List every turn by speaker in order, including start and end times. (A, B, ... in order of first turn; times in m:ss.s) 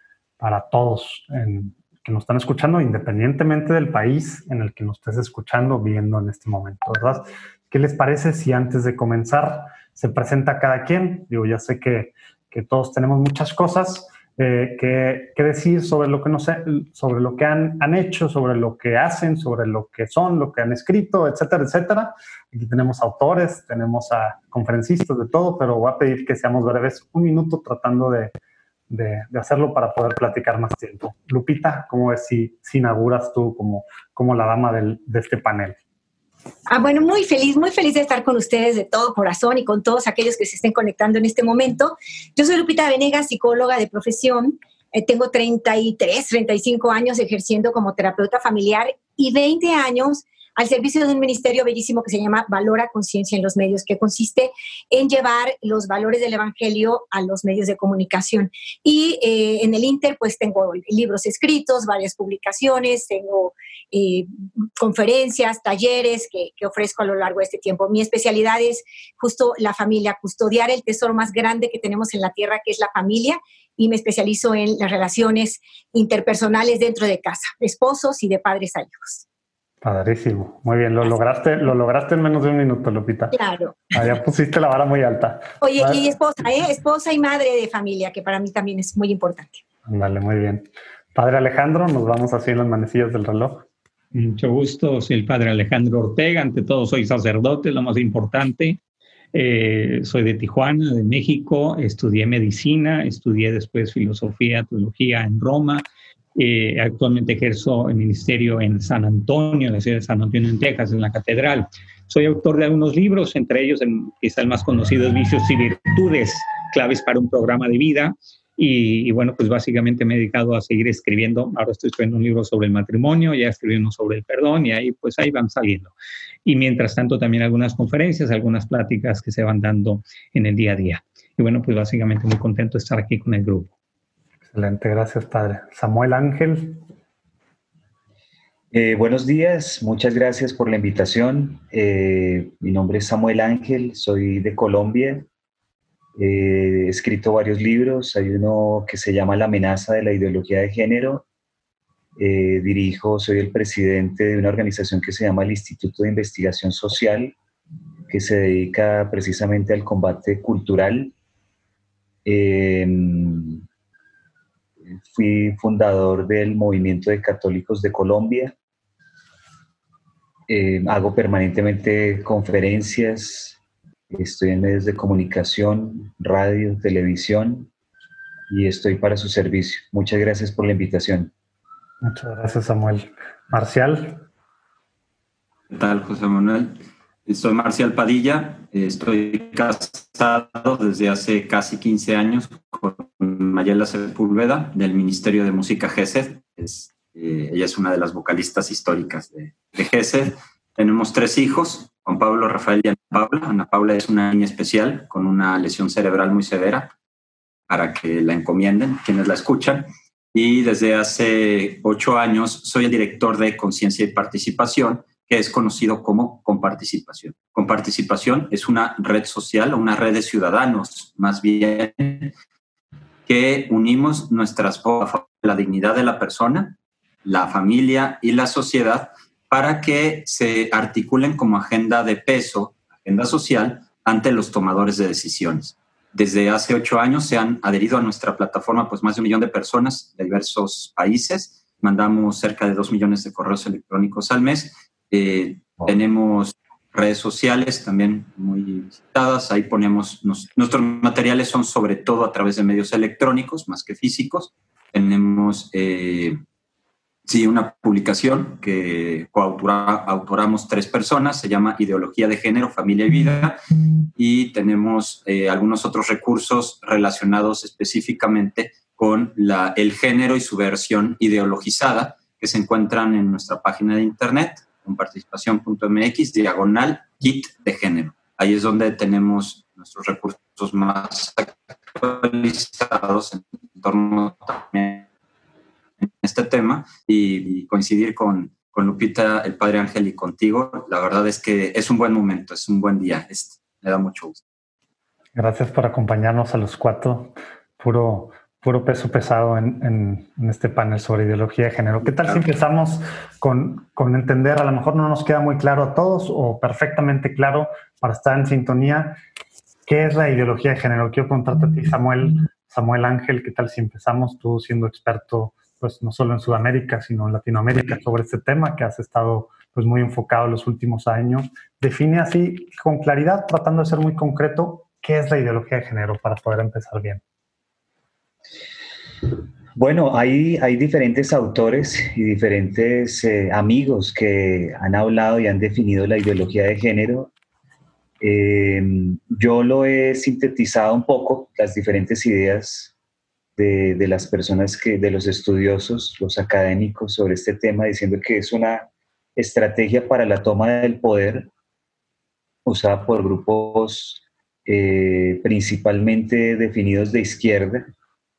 0:00.4-0:28.3 A
0:28.9-0:35.8 A
0:36.7-1:19.2 B
1:19.8-1:23.4 A
1:23.3-1:23.8 B
1:23.9-1:26.0 A
1:25.6-1:29.6 B
1:29.9-1:33.7 A
1:34.1-1:38.8 C
1:39.3-1:45.8 C
1:46.4-2:05.9 C
2:06.4-2:13.7 C
2:14.5-2:16.8 A
2:18.7-2:25.3 D
2:26.2-2:31.2 D
2:32.2-2:37.4 D
2:38.1-2:41.1 D
2:42.2-2:43.6 D
2:45.1-2:48.5 D
2:50.5-2:53.6 D
2:54.1-2:57.7 D
2:58.5-3:01.3 D
3:02.0-3:04.2 A
3:05.7-3:26.9 E
3:27.7-3:42.3 E
3:43.3-4:16.4 E
4:17.3-4:23.6 E
4:24.2-4:45.1 E
4:46.0-4:54.4 E
4:55.4-5:09.2 A
5:09.9-5:27.2 A
5:29.8-5:37.3 D
5:38.2-5:42.9 D
5:43.6-5:51.5 D
5:52.7-5:57.9 D